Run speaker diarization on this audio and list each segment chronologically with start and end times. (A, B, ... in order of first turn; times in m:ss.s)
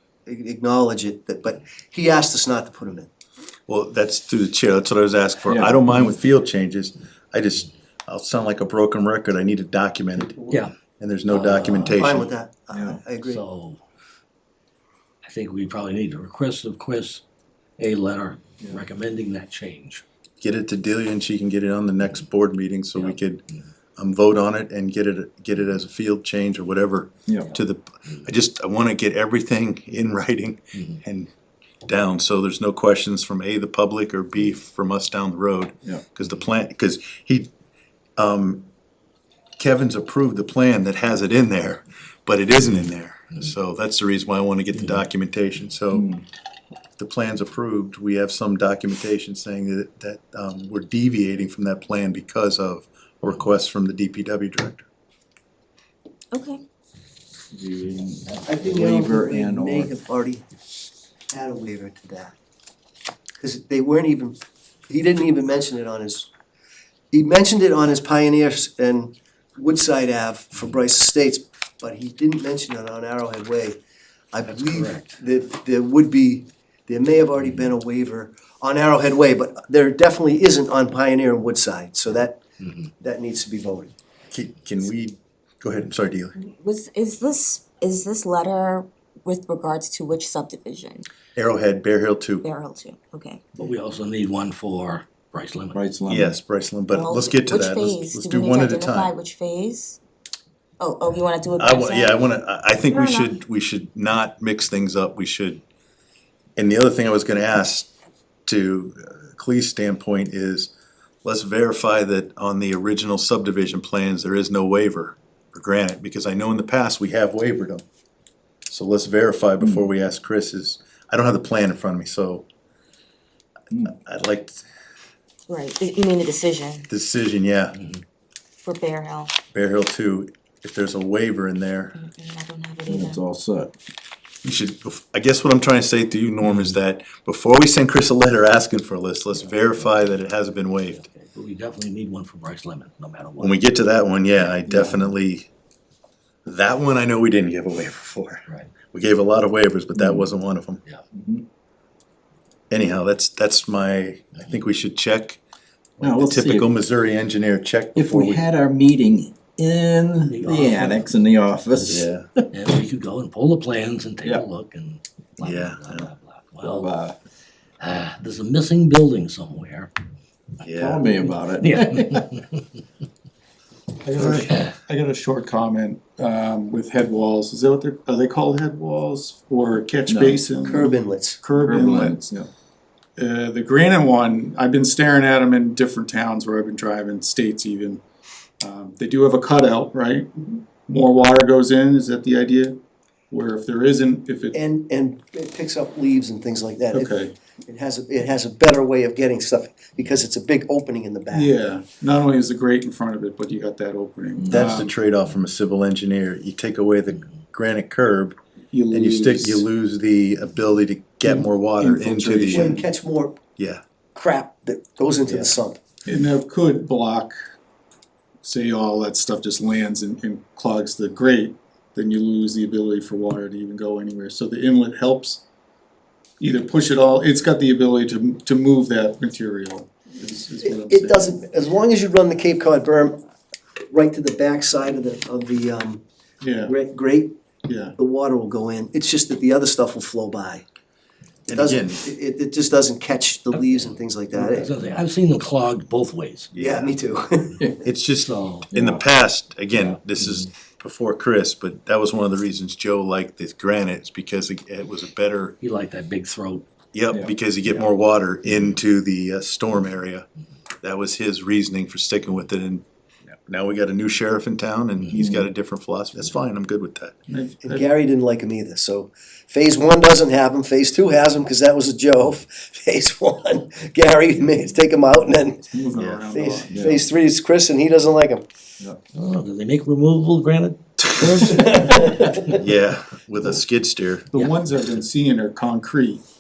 0:00.3-0:03.1 A
0:03.7-0:10.4 B
0:05.4-0:06.0 C
0:10.2-0:10.6 A
0:11.0-0:12.3 B
0:11.3-0:12.0 D
0:11.9-0:13.4 A
0:12.7-0:13.0 C
0:13.2-0:13.8 D
0:15.2-0:17.2 D
0:17.8-0:20.0 D
0:20.4-0:23.4 B
0:24.0-0:31.3 B
0:27.3-0:27.5 C
0:31.9-0:37.5 B
0:38.2-0:38.7 B
0:39.6-0:46.1 B
0:45.9-0:46.2 C
0:47.0-0:54.9 B
0:56.3-0:56.6 E
0:57.5-0:59.9 C
0:58.5-1:00.4 A
1:01.3-1:02.4 A
1:03.4-1:04.4 A
1:04.9-1:06.3 A
1:07.1-1:13.8 A
1:14.3-1:22.4 A
1:14.5-1:15.1 D
1:23.0-1:23.9 A
1:24.3-1:26.3 B
1:26.4-1:31.0 E
1:31.4-1:32.4 B
1:32.4-1:33.4 E
1:33.6-1:35.8 D
1:35.7-1:36.4 C
1:36.1-1:39.1 B
1:36.9-1:40.0 E
1:40.8-1:43.3 E
1:41.6-1:45.6 B
1:46.6-1:47.9 B
1:48.5-1:50.7 B
1:51.2-1:57.8 B
1:58.7-2:02.5 B
2:03.8-2:04.6 B
2:05.5-2:06.9 E
2:06.9-2:07.8 B
2:08.6-2:09.4 E
2:09.5-2:12.0 B
2:12.0-2:13.2 E
2:12.9-2:13.7 C
2:14.4-2:21.0 B
2:16.4-2:16.8 D
2:21.0-2:23.6 D
2:23.4-2:25.5 B
2:24.7-2:25.1 C
2:26.4-2:30.8 B
2:30.0-2:30.3 C
2:31.1-2:31.4 C
2:32.7-2:35.4 B
2:36.0-2:38.4 B
2:36.0-2:36.7 C
2:38.0-2:42.1 C
2:40.3-2:41.1 D
2:41.9-2:42.3 B
2:42.5-2:46.9 D
2:45.4-2:46.1 B
2:46.6-2:47.2 C
2:47.8-2:49.9 D
2:50.6-2:51.1 B
2:50.7-2:52.3 C
2:51.6-2:52.6 D
2:54.0-3:02.2 F
2:54.2-2:54.7 D
3:00.1-3:00.5 C
3:00.6-3:01.4 A
3:01.5-3:02.5 C
3:03.2-3:08.0 F
3:08.6-3:14.6 F
3:14.5-3:17.2 A
3:16.9-3:17.4 F
3:17.7-3:21.5 A
3:21.3-3:24.9 F
3:24.4-3:24.7 C
3:24.5-3:28.4 B
3:28.7-3:29.7 F
3:28.9-3:32.8 B
3:31.2-3:32.8 F
3:32.5-3:33.4 A
3:34.2-3:35.8 A
3:35.3-3:35.5 B
3:36.1-3:37.3 F
3:38.4-3:45.4 F
3:46.4-3:51.3 F
3:50.6-3:53.2 A
3:53.9-3:56.0 A
3:56.4-3:56.8 F
3:56.7-3:57.4 A
3:57.7-3:58.0 F
3:58.0-4:00.6 A
4:01.5-4:02.1 B
4:01.5-4:04.7 A
4:03.5-4:06.5 D
4:06.5-4:06.9 B
4:06.6-4:07.7 A
4:07.8-4:15.6 B
4:08.2-4:08.7 D
4:08.7-4:09.0 C
4:15.6-4:16.6 D
4:16.9-4:20.2 B
4:20.8-4:22.8 B
4:23.5-4:27.2 B
4:25.2-4:25.5 C
4:27.3-4:27.9 F
4:27.6-4:38.5 A
4:35.7-4:36.9 F
4:36.0-4:36.2 B
4:36.7-4:37.0 C
4:39.1-4:42.6 D
4:41.4-4:42.6 A
4:42.5-4:44.3 B
4:44.3-4:46.2 F